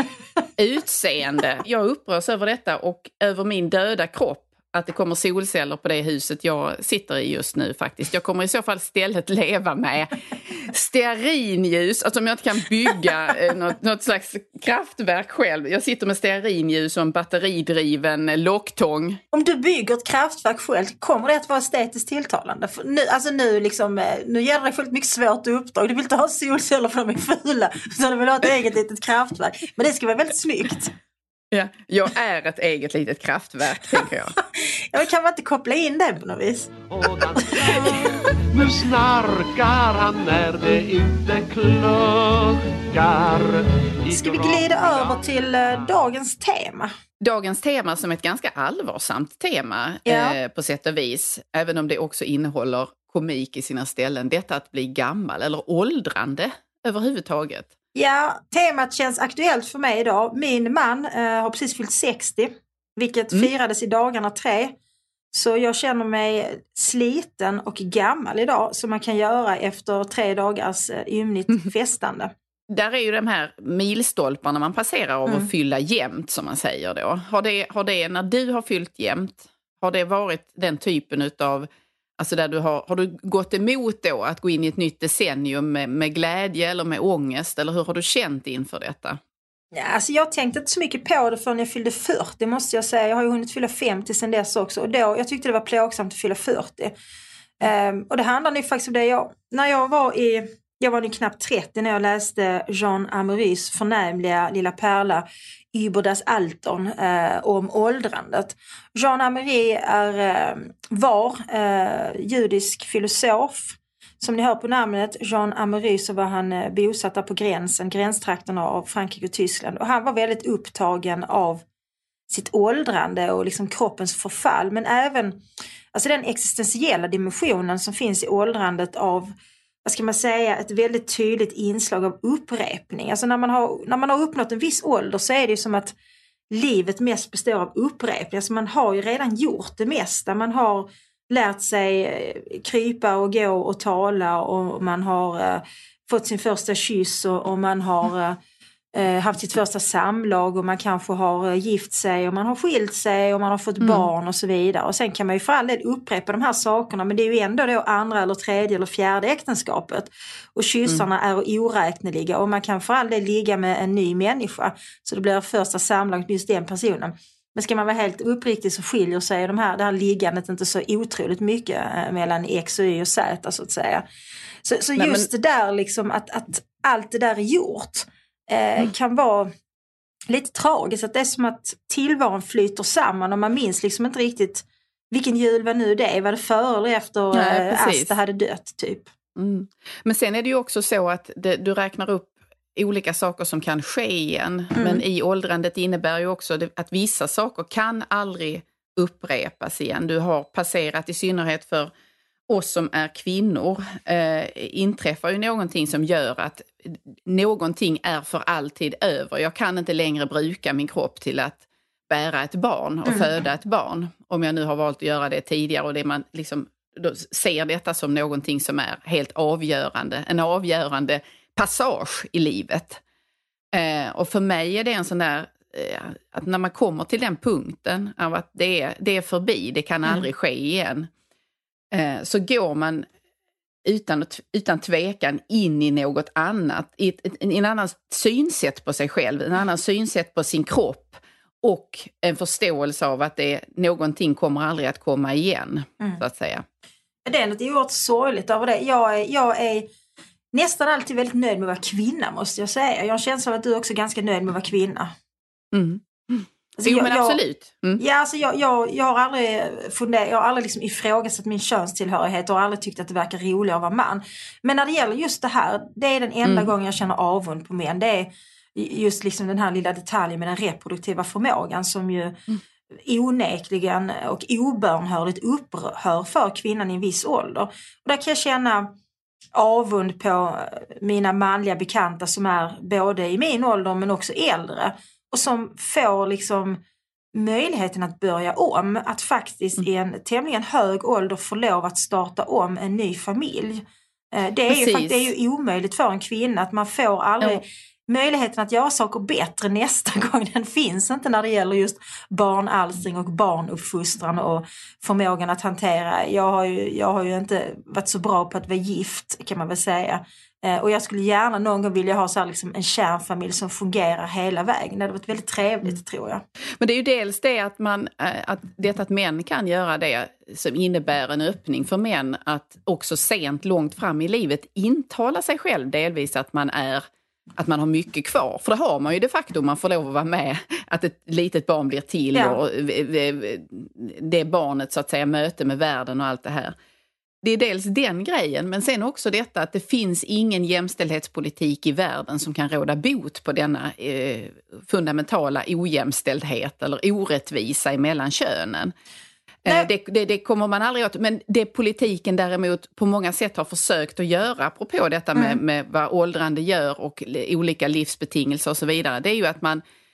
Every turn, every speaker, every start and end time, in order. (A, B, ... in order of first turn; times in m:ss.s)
0:00.6-0:19.2 A
0:19.3-0:30.9 B
0:31.5-0:34.3 A
0:33.9-0:38.2 B
0:36.9-0:45.9 C
0:44.1-0:46.9 B
0:47.2-0:57.7 A
0:50.0-0:50.4 B
0:57.9-1:04.7 B
1:05.3-1:12.3 B
1:12.7-1:29.2 A
1:29.7-1:36.9 B
1:37.6-2:01.6 B
2:02.3-2:05.4 B
2:05.9-2:09.3 B
2:09.8-2:15.9 B
2:16.5-2:28.4 B
2:28.9-2:54.0 B
2:33.8-2:34.1 A
2:54.6-2:59.5 B
2:55.0-2:55.3 A
3:00.3-3:09.1 B
3:07.3-3:08.1 A
3:09.4-3:21.9 A
3:14.7-3:15.0 B
3:22.5-3:43.0 A
3:33.0-3:33.3 B
3:43.7-3:51.1 A
3:51.9-3:53.1 A
3:53.8-4:06.6 A
4:07.2-4:09.9 B
4:10.5-4:15.1 B
4:15.7-4:18.0 A
4:16.8-4:17.4 B
4:18.0-4:32.4 B
4:26.4-4:26.7 A
4:33.0-4:38.9 B
4:39.5-4:46.8 B
4:47.3-5:16.4 B
4:54.7-4:55.3 A
5:16.8-5:27.0 A
5:27.6-5:36.7 A
5:32.3-5:32.6 B
5:37.4-5:48.9 A
5:49.6-5:59.8 A